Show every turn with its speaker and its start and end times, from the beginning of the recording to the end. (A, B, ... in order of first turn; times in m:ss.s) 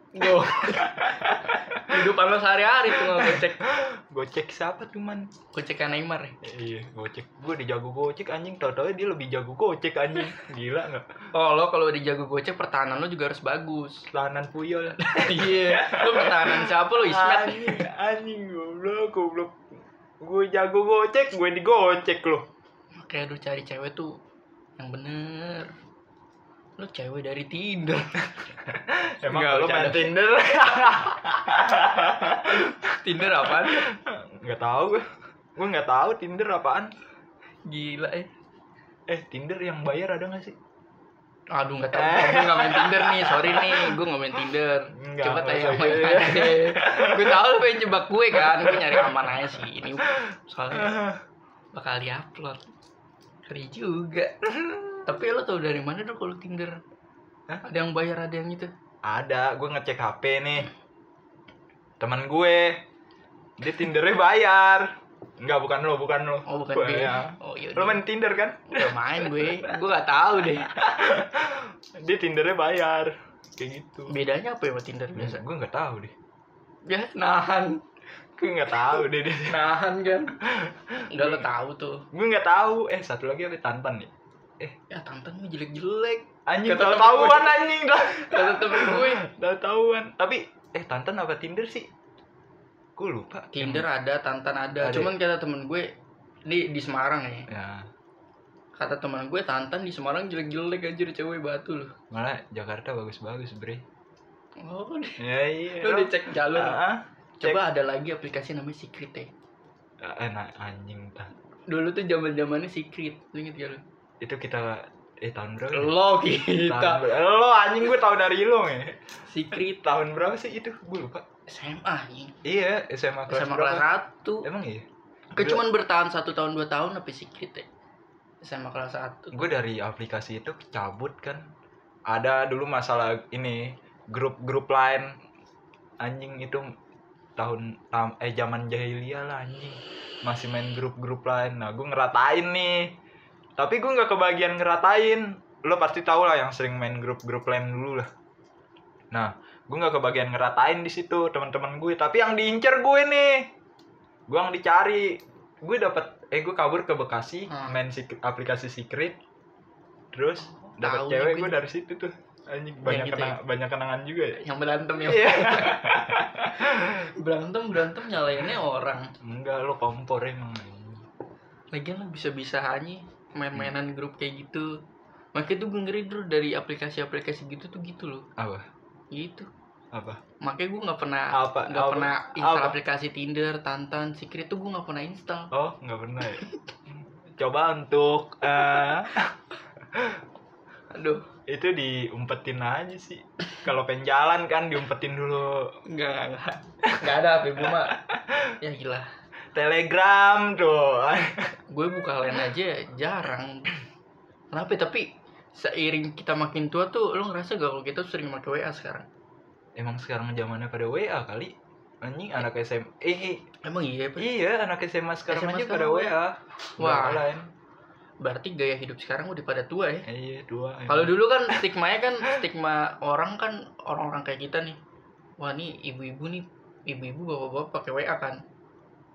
0:00.1-0:03.6 A
0:00.2-0:02.0 B
0:02.9-0:05.3 B
0:05.5-0:06.4 A
0:06.4-0:11.1 B
0:11.3-0:14.1 A
0:14.1-0:19.6 B
0:15.0-0:17.9 A
0:20.2-0:22.4 B
0:23.0-0:24.2 A
0:24.8-0:25.7 A
0:26.8-0:28.3 A
0:28.7-0:36.9 B
0:29.2-0:30.1 A
0:32.5-0:33.8 A
0:37.6-0:38.3 A
0:39.1-0:40.6 B
0:41.5-0:51.0 A
0:41.9-0:44.0 B
0:45.0-0:47.4 B
0:48.3-0:49.4 B
0:50.7-0:51.2 B
0:51.7-0:52.7 A
0:53.4-0:54.4 A
0:54.5-0:55.0 B
0:55.0-0:56.8 A
0:57.6-0:58.7 A
0:59.0-1:00.7 B
1:02.0-1:02.8 B
1:03.6-1:09.7 B
1:06.5-1:08.0 A
1:08.7-1:10.7 A
1:10.6-1:14.1 B
1:14.1-1:15.4 A
1:15.1-1:16.1 B
1:16.8-1:17.8 A
1:18.4-1:19.6 B
1:19.5-1:20.4 A
1:20.4-1:21.4 B
1:21.1-1:22.0 A
1:22.1-1:24.7 B
1:24.9-1:27.6 A
1:26.5-1:31.9 B
1:28.2-1:29.2 A
1:33.0-1:33.8 B
1:33.5-1:35.9 A
1:34.8-1:35.1 B
1:36.4-1:37.5 A
1:37.5-1:37.9 B
1:38.7-1:41.9 A
1:42.1-1:43.8 B
1:44.6-1:45.2 A
1:45.2-1:47.6 B
1:45.8-1:46.8 A
1:47.4-1:49.3 A
1:50.0-1:51.3 B
1:51.7-1:53.8 A
1:54.2-1:56.0 B
1:55.7-1:57.0 A
1:56.6-2:01.2 B
1:59.2-1:59.8 A
2:01.5-2:02.4 A
2:02.4-2:03.8 B
2:03.3-2:04.5 A
2:04.4-2:05.6 B
2:05.3-2:07.7 A
2:08.4-2:09.5 A
2:09.3-2:11.5 B
2:12.1-2:15.2 B
2:16.0-2:16.7 B
2:17.4-2:22.9 B
2:23.6-2:28.1 B
2:29.1-2:33.5 B
2:34.3-2:39.2 B
2:37.5-2:37.8 A
2:40.1-2:44.4 B
2:40.4-2:41.5 A
2:42.8-2:43.4 A
2:44.4-2:46.0 A
2:45.0-2:47.0 B
2:46.6-2:49.1 A
2:49.2-2:51.0 B
2:51.7-2:54.8 A
2:55.3-2:58.3 A
2:58.4-2:58.6 B
2:59.1-2:59.5 A
2:59.9-3:00.2 B
3:00.4-3:05.5 A
3:01.3-3:02.8 B
3:05.5-3:09.4 B
3:09.9-3:10.2 B
3:10.9-3:11.2 A
3:11.5-3:15.7 B
3:15.8-3:18.0 A
3:17.7-3:18.5 B
3:18.6-3:19.1 A
3:19.5-3:21.5 B
3:21.7-3:23.7 A
3:24.5-3:29.1 A
3:29.8-3:33.4 B
3:33.6-3:34.3 A
3:34.2-3:37.5 B
3:35.3-3:36.2 A
3:36.8-3:37.2 A
3:38.2-3:40.1 A
3:40.1-3:41.6 B
3:40.9-3:44.8 A
3:45.4-3:48.4 A